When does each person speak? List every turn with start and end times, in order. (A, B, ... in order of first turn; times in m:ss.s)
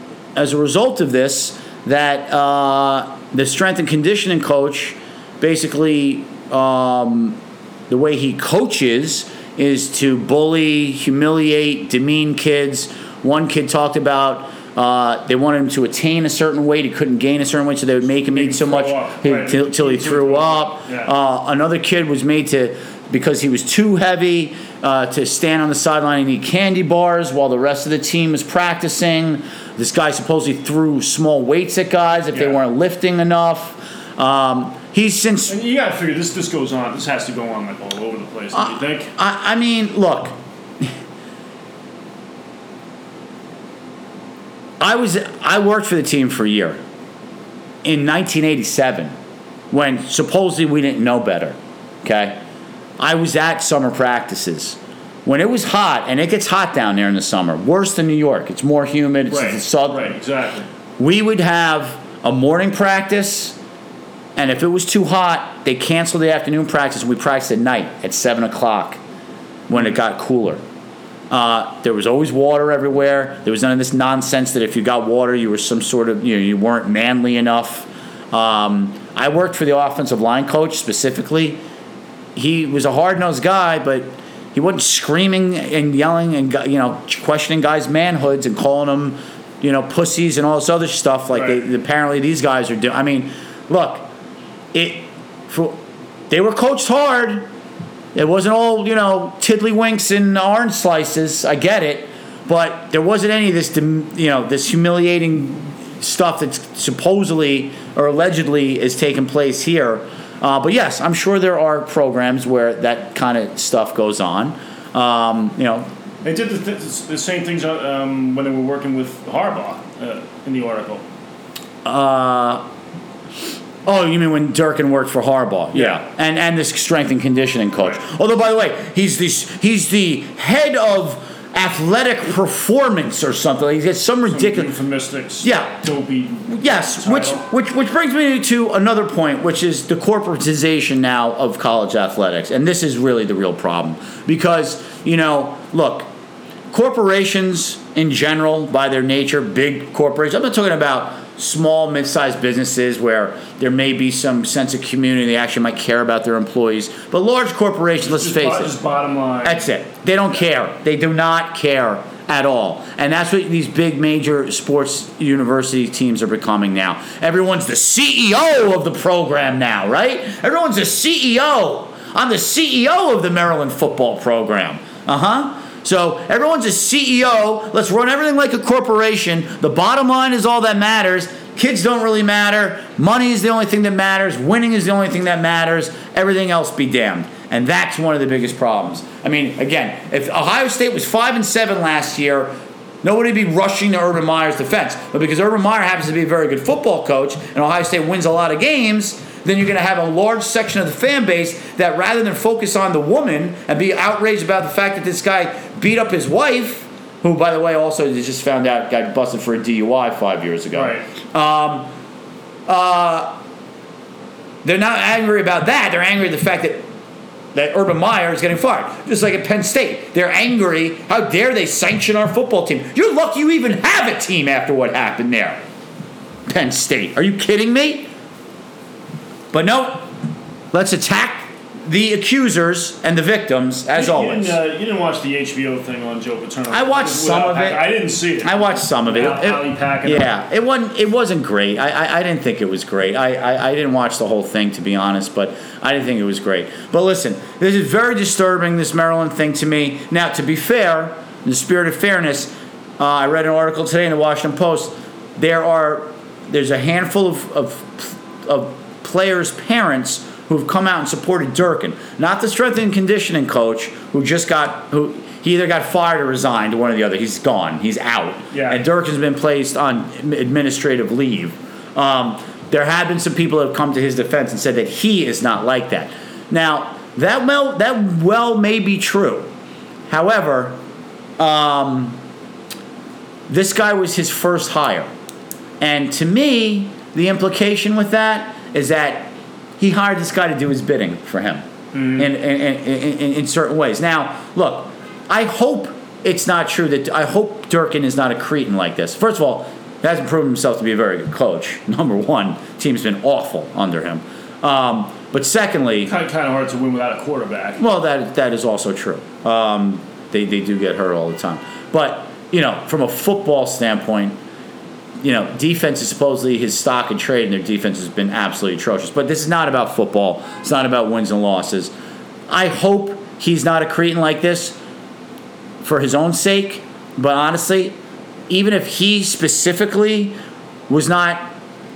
0:00.4-0:07.4 A
0:07.9-0:35.5 A
0:18.3-0:21.1 B
0:32.3-0:32.6 B
0:35.5-0:39.1 B
0:38.5-0:40.9 A
0:44.8-0:46.8 A
0:47.8-0:49.1 A
0:49.7-0:52.4 A
0:53.0-1:00.1 A
0:59.3-1:00.7 B
1:01.0-1:03.6 A
1:04.4-1:09.0 A
1:09.7-1:10.6 A
1:11.3-1:21.6 A
1:22.4-1:34.1 A
1:31.3-1:31.6 B
1:34.7-1:35.8 A
1:36.3-1:37.5 A
1:38.1-1:55.9 A
1:56.2-2:01.0 B
2:01.8-2:02.6 A
2:03.9-2:14.7 A
2:05.7-2:06.0 B
2:14.3-2:17.4 B
2:15.4-2:15.8 A
2:16.5-2:26.1 A
2:26.7-2:38.7 A
2:38.0-2:39.7 B
2:39.4-3:31.9 A
3:30.7-3:31.1 B
3:32.7-3:33.4 A
3:34.6-3:36.8 A
3:37.5-3:45.6 A
3:46.5-3:48.1 A
3:49.5-3:50.1 A
3:50.7-3:54.6 A
3:53.9-4:00.3 B
3:56.7-4:39.5 A
4:28.5-4:28.8 B
4:40.1-4:40.8 A
4:41.4-4:42.2 A
4:43.5-4:45.1 A
4:45.8-4:51.6 A
4:51.9-4:52.3 B
4:52.2-5:06.1 A
5:06.0-5:07.8 B
5:07.8-5:14.4 A
5:15.2-5:21.9 A
5:22.5-5:24.8 A
5:25.8-5:28.0 A
5:28.5-5:30.4 A
5:30.9-5:31.5 A